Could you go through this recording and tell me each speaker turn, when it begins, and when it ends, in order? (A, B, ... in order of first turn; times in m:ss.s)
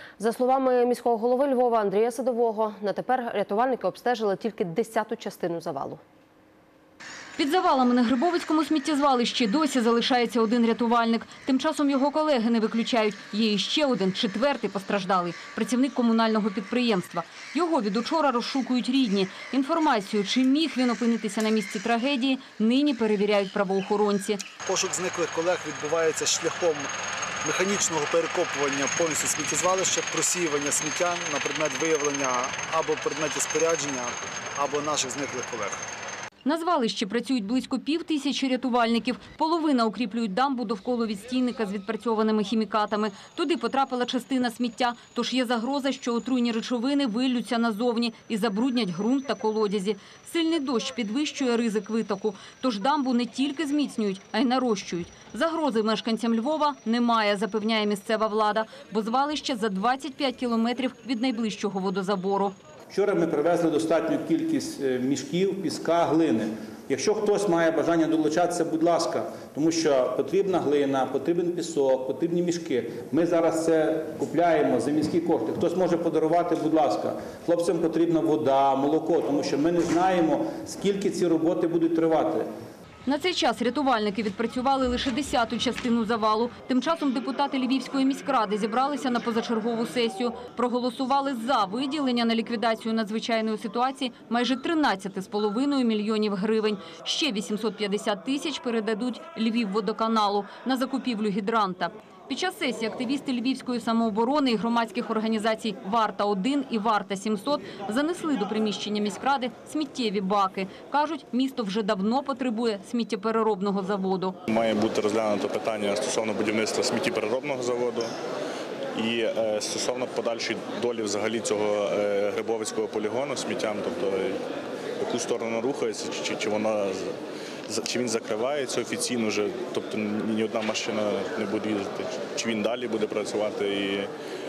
0:00.2-0:06.0 A
0:07.4-0:24.4 B
0:24.7-0:26.9 C
0:27.4-0:35.8 C
0:36.4-1:02.6 B
1:02.9-1:22.5 D
1:23.1-1:54.4 B
1:54.5-1:58.1 E
1:59.0-2:04.4 E
2:05.0-2:07.1 E
2:07.7-2:14.1 E